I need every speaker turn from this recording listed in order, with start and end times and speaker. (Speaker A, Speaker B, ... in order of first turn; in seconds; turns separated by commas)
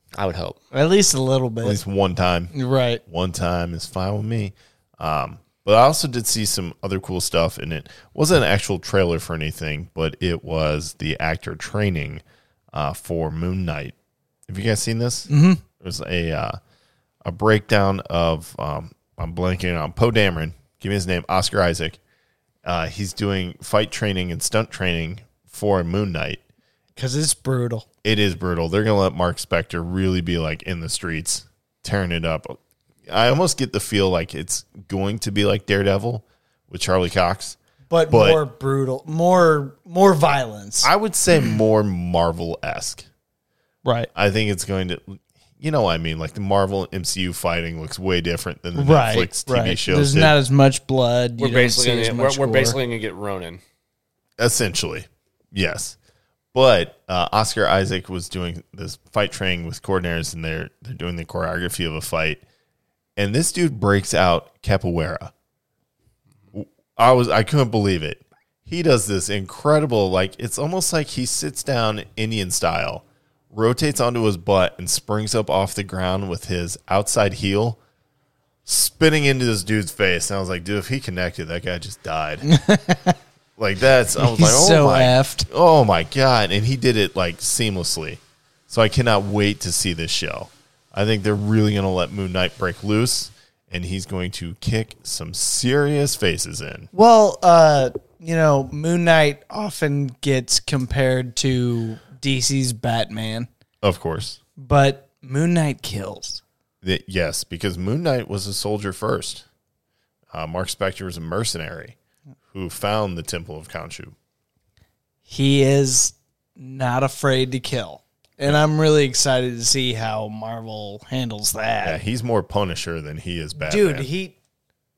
Speaker A: 0.1-0.6, Speaker B: 0.7-1.8, Speaker C: 1.6-2.5, Speaker B: 2.5-3.0, Speaker C: 3.0-13.9, Speaker C: 14.5-16.6, Speaker B: 15.3-15.6, Speaker C: 17.2-22.0, Speaker C: 22.6-26.4, Speaker B: 27.0-27.9, Speaker C: 28.0-37.6, Speaker B: 37.9-40.9, Speaker C: 38.1-38.4, Speaker C: 40.8-43.0, Speaker B: 43.8-44.1, Speaker C: 44.1-50.4, Speaker B: 48.8-52.8, Speaker A: 51.4-53.6, Speaker C: 54.4-56.0, Speaker C: 56.5-62.4, Speaker C: 63.2-65.3, Speaker C: 66.5-77.8, Speaker C: 78.6-82.5, Speaker B: 82.4-83.2, Speaker C: 83.6-96.9, Speaker B: 84.2-85.5, Speaker B: 96.9-103.5, Speaker C: 103.8-104.4, Speaker B: 104.6-106.4, Speaker C: 106.8-109.5, Speaker C: 110.3-112.0, Speaker C: 112.5-114.1, Speaker B: 115.3-122.0, Speaker C: 121.8-124.1, Speaker B: 123.5-124.4